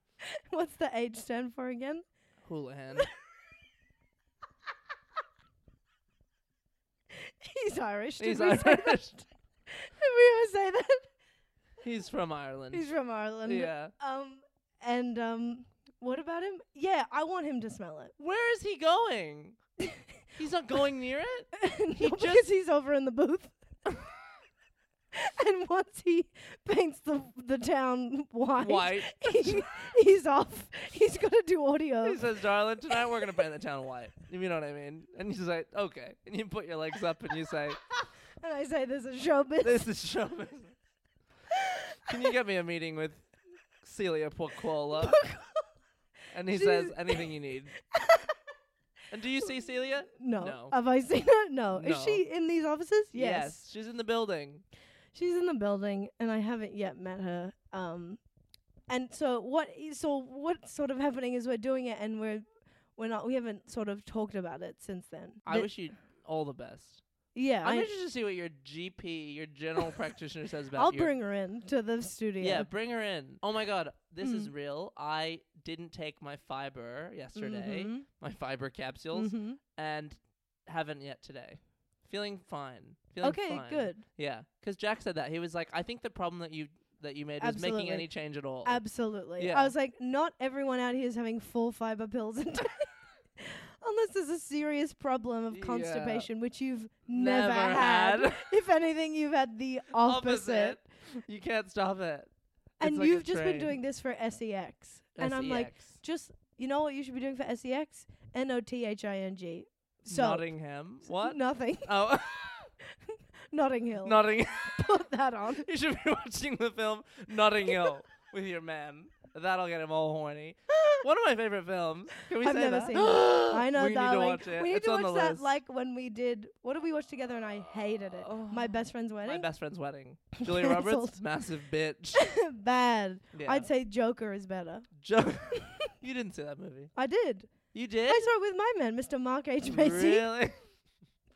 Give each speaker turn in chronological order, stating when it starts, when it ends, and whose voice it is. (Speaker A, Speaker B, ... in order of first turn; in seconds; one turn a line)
Speaker A: 0.5-2.0
Speaker B: 2.5-3.1
Speaker A: 7.3-11.1
Speaker B: 8.2-9.2
Speaker B: 11.8-12.9
Speaker A: 12.7-18.1
Speaker B: 13.5-13.9
Speaker B: 18.2-19.6
Speaker B: 20.4-22.4
Speaker A: 21.6-23.5
Speaker A: 25.1-32.2
Speaker B: 28.6-29.7
Speaker B: 32.0-37.8
Speaker A: 38.4-39.8
Speaker B: 39.6-40.7
Speaker B: 42.1-43.3
Speaker B: 43.8-45.2
Speaker A: 45.0-45.6
Speaker B: 46.3-47.8
Speaker A: 46.5-47.3
Speaker A: 47.9-48.3
Speaker B: 49.1-50.8
Speaker A: 50.1-53.6
Speaker B: 51.8-52.2
Speaker B: 53.1-54.6
Speaker A: 55.1-58.2
Speaker A: 58.9-62.5
Speaker A: 63.0-65.7
Speaker B: 65.5-67.0
Speaker A: 67.3-67.9
Speaker B: 67.6-71.1
Speaker A: 70.8-72.7
Speaker B: 72.4-88.8
Speaker A: 74.2-74.5
Speaker A: 77.4-78.0
Speaker A: 79.1-79.6
Speaker A: 83.2-84.0
Speaker A: 87.4-88.1
Speaker A: 88.6-100.8
Speaker B: 89.4-89.7
Speaker B: 95.5-96.3
Speaker B: 97.1-98.5
Speaker B: 100.0-102.3
Speaker B: 102.8-103.8
Speaker A: 102.8-110.5
Speaker B: 105.2-106.0
Speaker B: 110.1-112.7
Speaker A: 111.1-111.9
Speaker A: 113.5-115.7
Speaker B: 114.0-114.9
Speaker B: 115.6-125.5
Speaker A: 122.4-129.5
Speaker B: 128.2-132.2
Speaker A: 130.4-131.2
Speaker A: 132.2-134.9
Speaker B: 133.3-133.7
Speaker B: 135.0-136.9
Speaker A: 137.0-137.6
Speaker B: 137.7-138.3
Speaker A: 138.1-140.3
Speaker B: 139.6-140.6